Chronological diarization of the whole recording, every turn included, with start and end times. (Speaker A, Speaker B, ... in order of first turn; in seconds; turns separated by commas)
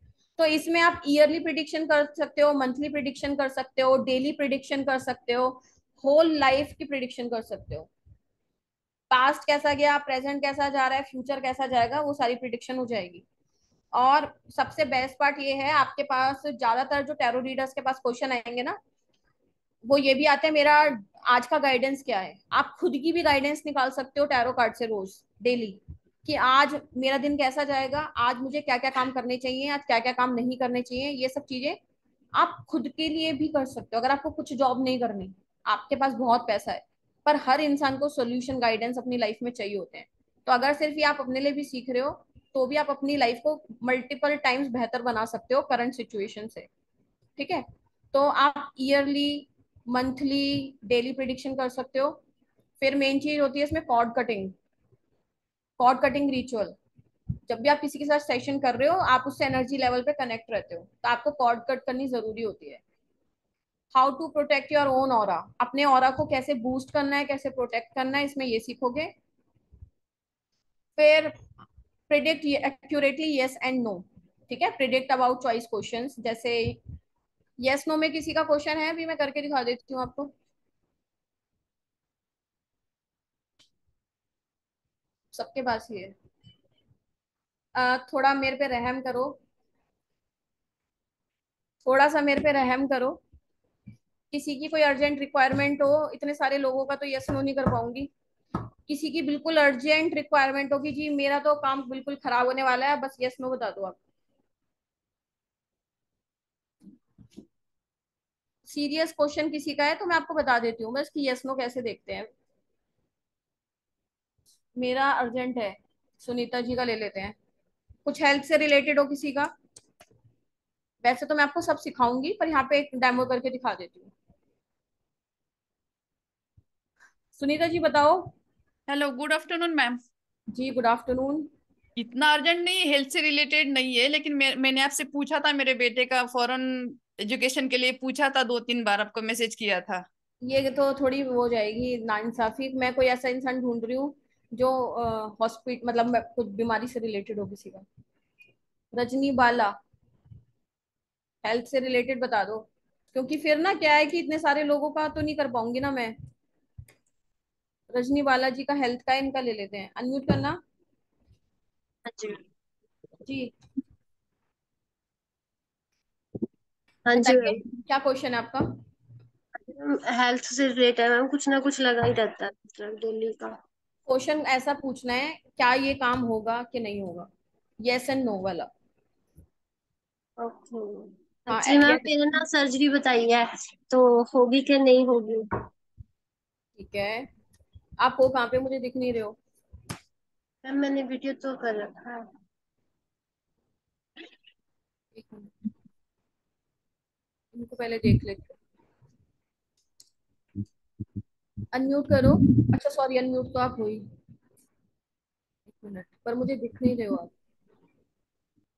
Speaker A: 0.4-7.9, Speaker A: 9.1-13.2, Speaker A: 13.9-18.8, Speaker A: 19.9-31.8, Speaker A: 32.4-46.7, Speaker A: 47.4-52.2, Speaker A: 52.8-54.5, Speaker A: 55.8-56.8, Speaker A: 57.5-62.8, Speaker A: 64.0-69.1, Speaker A: 71.0-71.3, Speaker A: 72.1-76.8, Speaker A: 77.6-80.3, Speaker A: 85.3-86.1, Speaker A: 87.8-89.4, Speaker A: 91.8-93.2, Speaker A: 94.3-98.1, Speaker A: 98.9-104.0, Speaker A: 108.7-112.3, Speaker A: 114.8-117.4, Speaker A: 118.1-119.5, Speaker A: 121.0-124.1, Speaker A: 127.4-128.3, Speaker B: 128.9-130.0, Speaker A: 130.5-131.5, Speaker B: 132.0-140.0, Speaker A: 140.4-147.8, Speaker A: 148.9-149.8, Speaker A: 151.4-156.2, Speaker A: 157.9-160.6, Speaker C: 162.1-162.4, Speaker A: 163.2-163.5, Speaker C: 167.1-167.6, Speaker A: 167.2-168.8, Speaker C: 169.7-173.6, Speaker A: 174.1-177.3, Speaker A: 177.8-178.7, Speaker C: 180.4-185.5, Speaker A: 181.5-182.4, Speaker A: 186.8-187.3, Speaker A: 188.0-189.4, Speaker C: 190.7-192.3, Speaker A: 195.2-195.5, Speaker A: 197.6-198.6, Speaker A: 201.7-204.0, Speaker A: 205.7-207.3